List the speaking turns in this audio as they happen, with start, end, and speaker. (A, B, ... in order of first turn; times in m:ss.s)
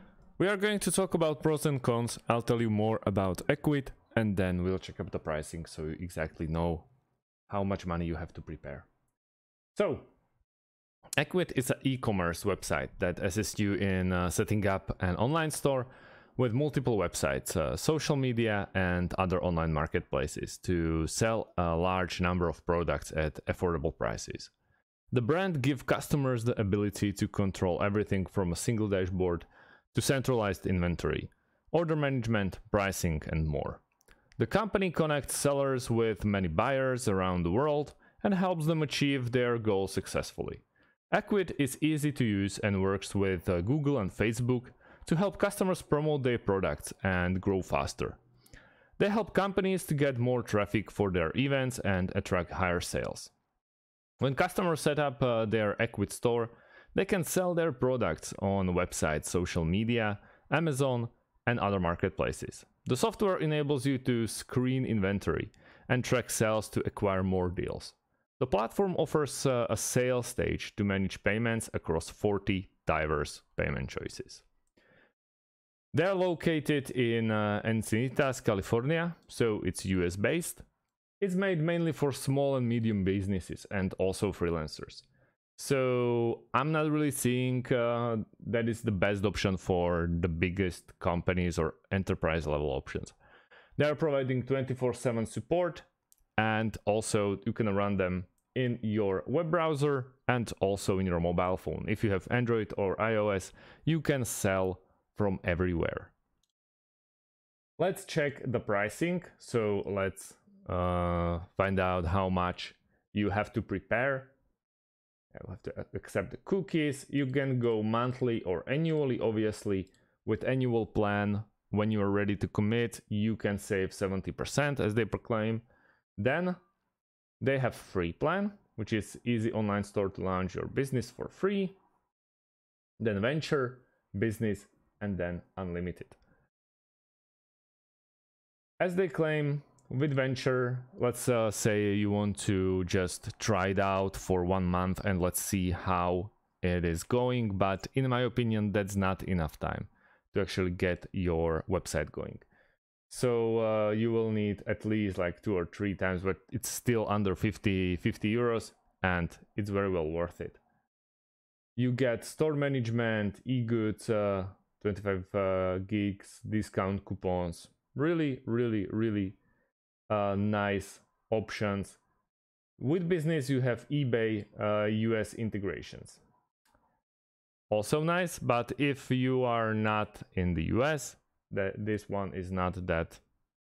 0:00.4-0:06.9 A
0:07.5-0:08.9 A
0:09.8-0:10.1 A
0:11.2-0:24.5 A
0:25.1-0:33.8 A
0:34.4-0:48.2 A
0:49.0-0:53.3 A
0:54.2-1:14.4 A
1:15.9-1:20.6 A
1:21.2-1:25.0 A
1:25.6-1:33.1 A
1:33.8-1:35.8 A
1:36.4-1:46.1 A
1:47.8-1:54.3 A
1:55.3-2:05.6 A
2:06.2-2:06.6 A
2:07.4-2:11.8 A
2:13.0-2:16.2 A
2:18.8-2:32.4 A
2:33.1-2:40.6 A
2:41.8-2:49.4 A
2:50.1-2:52.0 A
2:52.8-2:56.2 A
2:57.7-3:03.2 A